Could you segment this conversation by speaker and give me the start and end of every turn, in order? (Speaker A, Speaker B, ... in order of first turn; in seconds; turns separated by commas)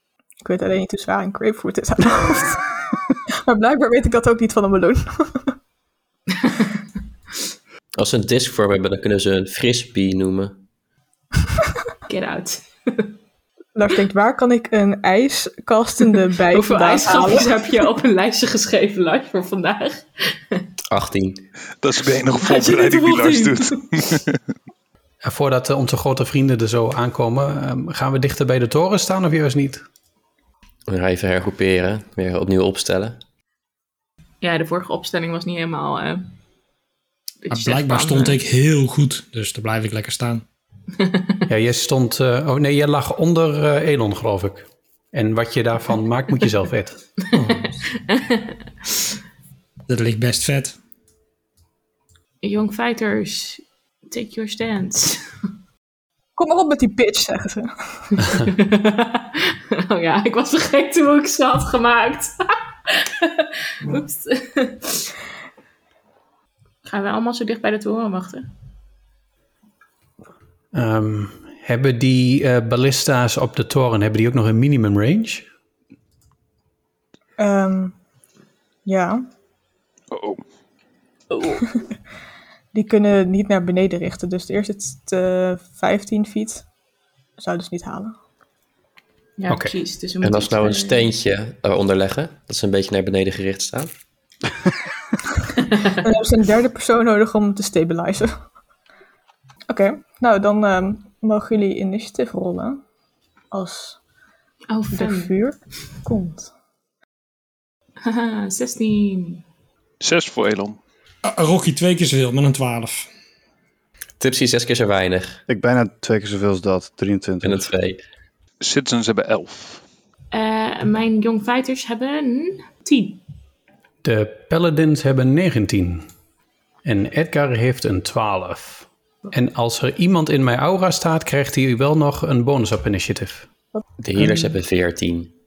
Speaker A: 0.4-2.6, Speaker A: 3.5-5.5, Speaker B: 8.0-10.6, Speaker C: 12.1-13.1, Speaker A: 13.7-17.8, Speaker C: 16.5-20.6, Speaker B: 20.9-21.4, Speaker D: 21.8-24.4, Speaker C: 22.2-24.1, Speaker E: 25.2-29.8, Speaker B: 30.9-33.2, Speaker C: 34.4-36.3, Speaker C: 37.4-38.4, Speaker F: 37.5-40.4, Speaker C: 41.0-41.4, Speaker E: 41.5-47.0, Speaker F: 47.3-47.7, Speaker C: 47.3-48.6, Speaker F: 49.9-50.8, Speaker C: 52.4-55.2, Speaker A: 56.4-58.2, Speaker C: 58.3-65.1, Speaker C: 66.8-68.5, Speaker E: 70.7-75.5, Speaker A: 77.4-77.9, Speaker A: 78.8-79.3, Speaker D: 80.1-80.4, Speaker C: 81.3-81.7, Speaker A: 82.7-86.7, Speaker A: 87.4-88.2, Speaker C: 89.4-91.1, Speaker E: 89.5-89.7, Speaker B: 90.2-93.9, Speaker A: 96.0-98.3, Speaker A: 99.7-102.8, Speaker A: 103.5-104.0, Speaker C: 104.7-105.3, Speaker A: 104.9-106.5, Speaker C: 108.0-109.4, Speaker D: 110.0-110.8, Speaker F: 111.2-113.1, Speaker B: 114.2-115.4, Speaker G: 115.5-117.7, Speaker B: 117.4-118.0, Speaker D: 118.6-119.8, Speaker C: 120.3-123.2, Speaker E: 124.0-126.1, Speaker E: 126.8-133.5, Speaker B: 134.0-135.3, Speaker E: 134.2-134.5